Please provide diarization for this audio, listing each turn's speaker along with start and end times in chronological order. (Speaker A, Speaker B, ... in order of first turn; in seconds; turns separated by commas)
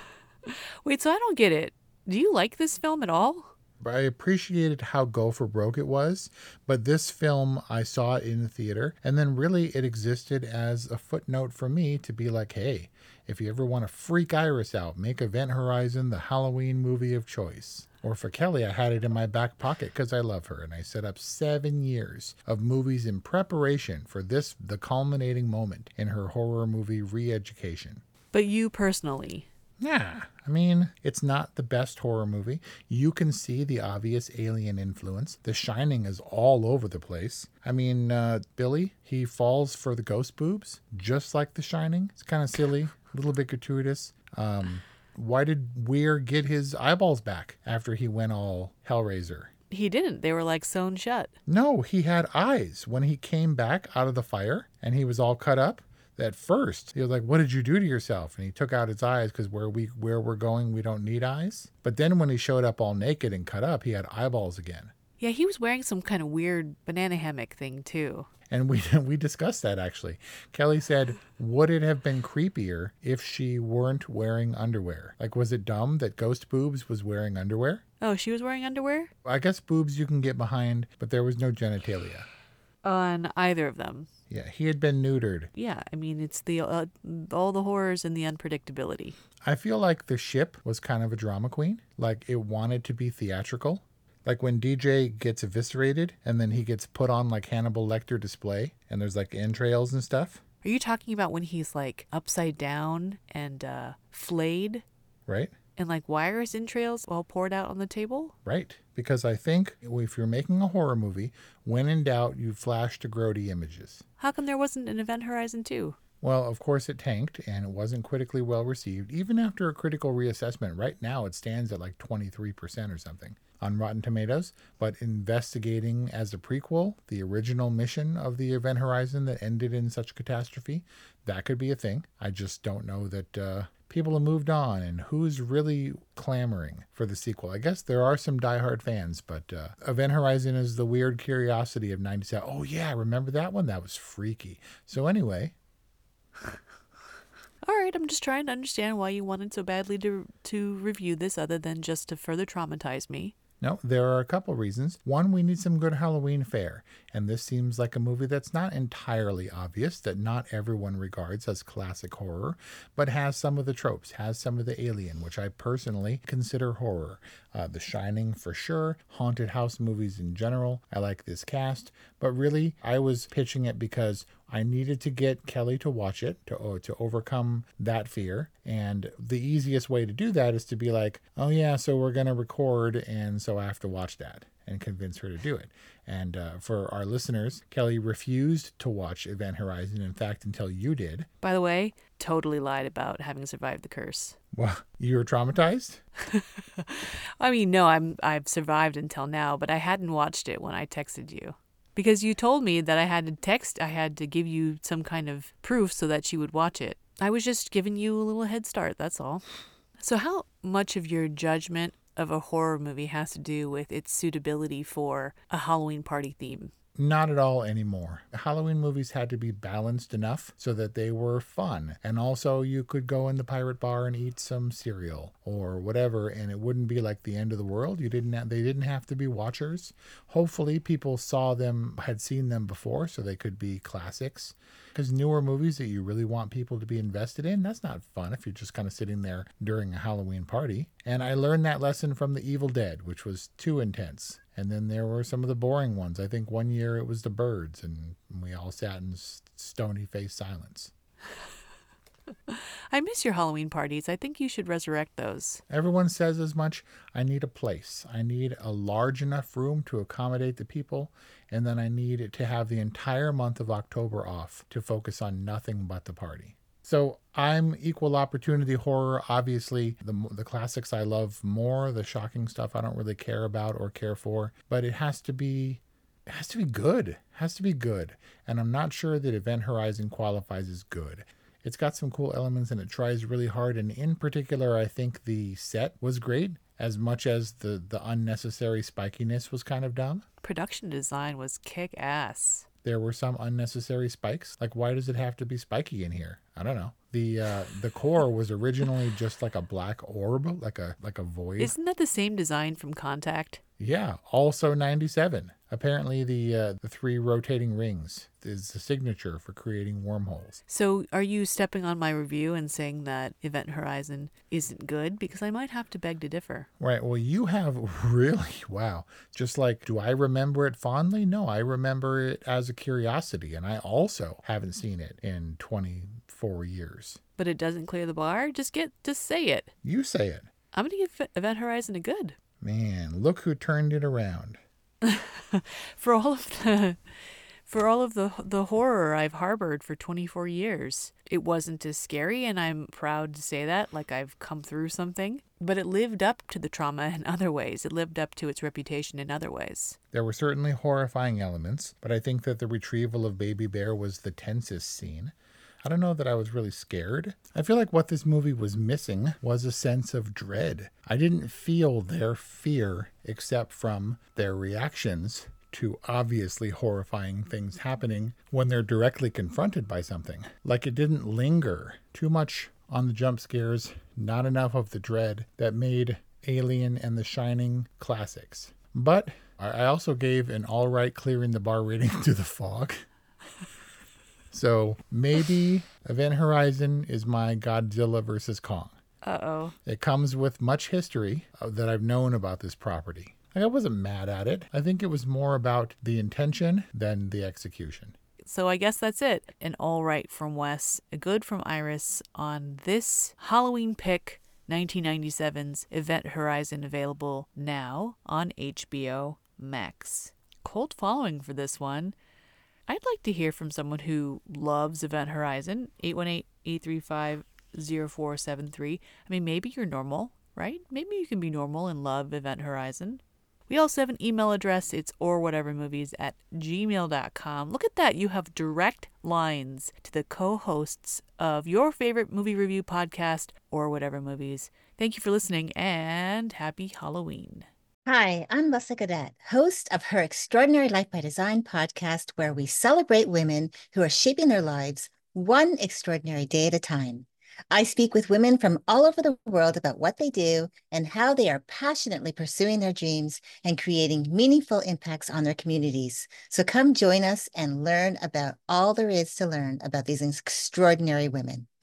Speaker A: 0.5-3.5, Speaker B: 3.8-28.0, Speaker A: 28.3-29.5, Speaker B: 29.8-49.5, Speaker A: 49.7-51.3, Speaker B: 51.5-64.9, Speaker A: 65.2-68.3, Speaker B: 68.5-77.8, Speaker A: 78.0-79.1, Speaker B: 79.2-82.3, Speaker A: 82.8-84.1, Speaker B: 84.3-85.5, Speaker A: 85.5-89.2, Speaker B: 89.4-100.4, Speaker A: 100.6-104.8, Speaker B: 105.3-105.5, Speaker A: 105.8-108.3, Speaker B: 108.5-114.0, Speaker A: 114.2-116.0, Speaker B: 116.2-145.5, Speaker A: 147.6-153.3, Speaker B: 153.6-191.3, Speaker A: 191.4-194.4, Speaker B: 194.5-196.0, Speaker A: 196.3-209.4, Speaker A: 210.0-216.7, Speaker B: 217.0-250.9, Speaker A: 252.5-255.6, Speaker B: 255.7-290.3, Speaker A: 290.4-292.7, Speaker B: 292.8-301.7, Speaker A: 301.6-303.6, Speaker B: 303.8-310.6, Speaker A: 310.7-316.7, Speaker B: 316.8-327.2, Speaker A: 327.4-329.7, Speaker B: 329.8-330.5, Speaker A: 330.7-332.4, Speaker B: 332.6-334.6, Speaker A: 335.0-337.0, Speaker A: 337.7-350.0, Speaker B: 350.1-383.0, Speaker B: 384.5-388.9, Speaker A: 389.2-389.8, Speaker B: 389.9-398.2, Speaker A: 398.4-412.1, Speaker A: 412.9-437.7, Speaker C: 438.1-461.7